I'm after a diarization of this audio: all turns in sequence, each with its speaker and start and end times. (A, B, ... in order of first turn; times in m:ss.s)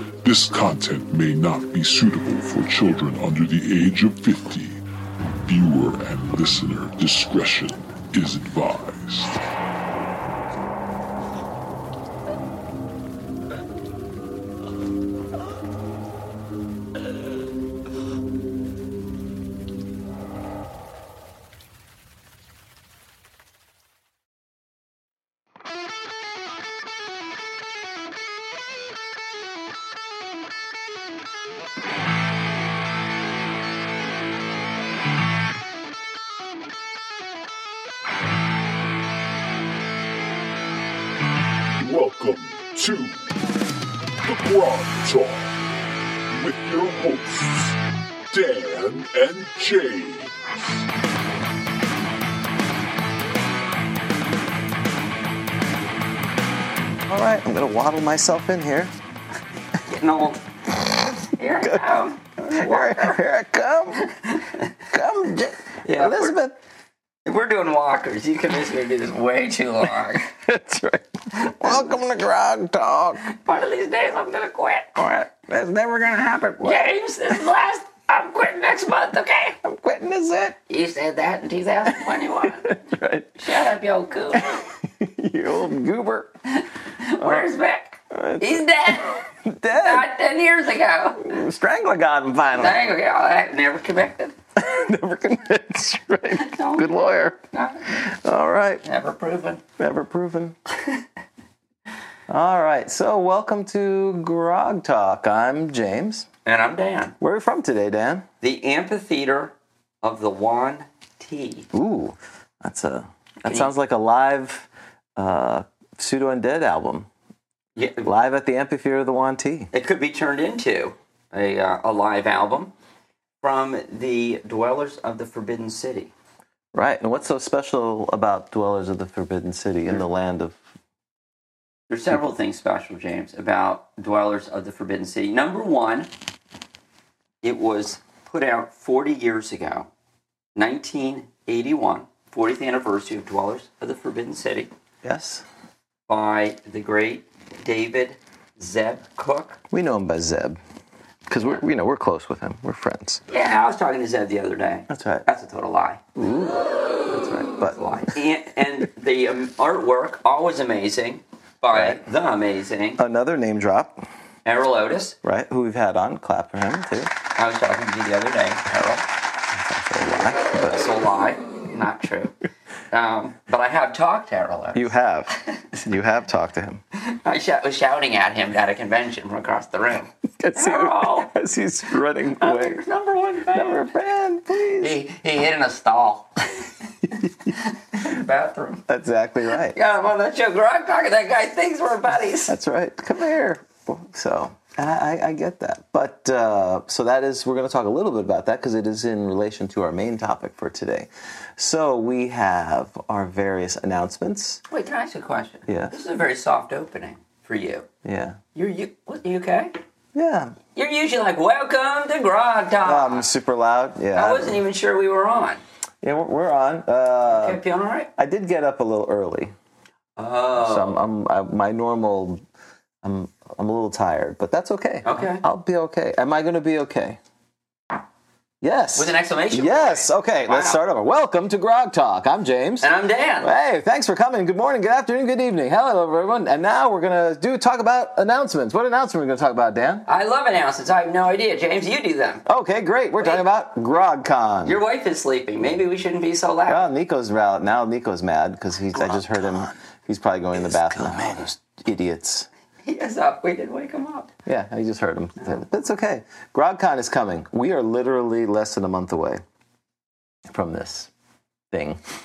0:00.2-0:04.8 A
0:05.4-0:09.4 A
0:41.8-0:43.2 A
0:44.2-0:45.5 A
0:46.3-0:47.8 A
0:48.3-0:50.3 A
0:57.1-0:58.9 B
0:59.8-1:00.4 C
1:01.2-1:03.2 C
1:02.5-1:04.0 B
1:04.0-1:04.7 C
1:04.9-1:06.6 B
1:05.8-1:06.3 C
1:07.2-1:10.3 C
1:10.4-1:13.2 B
1:11.3-1:11.9 C
1:13.2-1:15.3 C
1:15.2-1:16.8 B
1:16.6-1:19.6 C
1:19.6-1:20.6 B
1:20.7-1:22.8 C
1:22.4-1:23.4 B
1:23.4-1:24.6 C
1:24.3-1:26.3 B
1:26.5-1:31.4 C
1:27.2-1:27.4 B
1:28.1-1:30.1 B
1:31.2-1:32.8 B
1:32.5-1:34.4 C
1:34.6-1:38.8 B
1:36.3-1:38.0 C
1:38.8-1:39.6 C
1:39.8-1:40.6 B
1:42.3-1:46.2 B
1:46.4-1:47.2 C
1:47.2-1:48.2 B
1:48.4-1:51.7 C
1:51.7-1:57.1 B
1:53.4-1:53.7 C
1:57.8-1:58.1 C
1:58.0-1:59.7 B
1:59.7-2:02.7 C
2:03.4-2:06.1 C
2:06.7-2:10.6 B
2:11.9-2:16.1 C
2:17.4-2:19.9 C
2:20.5-2:24.7 C
2:25.0-2:25.4 B
2:26.1-2:29.6 C
2:29.7-2:30.6 B
2:31.3-2:33.2 B
2:33.3-2:36.0 C
2:34.9-2:35.2 B
2:36.2-2:38.1 B
2:37.6-2:43.0 C
2:41.7-2:42.0 B
2:43.0-2:44.0 B
2:44.4-2:45.2 C
2:45.2-2:47.1 B
2:47.3-2:49.1 C
2:49.5-2:50.8 B
2:50.5-2:52.4 C
2:52.9-2:54.9 C
2:54.7-2:56.8 B
2:57.0-3:01.3 C
3:00.4-3:02.8 B
3:02.4-3:03.8 C
3:03.5-3:04.9 B
3:04.8-3:08.8 C
3:08.9-3:09.8 B
3:09.6-3:12.5 C
3:12.4-3:24.6 B
3:24.7-3:27.8 C
3:25.7-3:25.9 B
3:28.0-3:28.4 B
3:28.5-3:29.7 C
3:30.1-3:30.6 B
3:30.8-3:33.3 C
3:32.8-3:34.6 B
3:34.1-3:35.6 C
3:36.0-3:37.6 B
3:37.2-3:38.1 C
3:38.2-3:39.5 B
3:40.2-3:41.0 C
3:40.6-3:42.4 B
3:43.0-3:47.2 B
3:45.0-3:45.4 C
3:48.6-4:00.0 B
3:49.0-3:50.8 C
3:52.8-3:53.5 C
4:00.0-4:02.4 C
4:02.4-4:04.8 B
4:03.2-4:03.4 C
4:04.6-4:06.9 C
4:06.7-4:12.5 B
4:12.8-4:14.3 C
4:14.4-4:19.4 B
4:20.5-4:21.1 B
4:21.7-4:22.0 B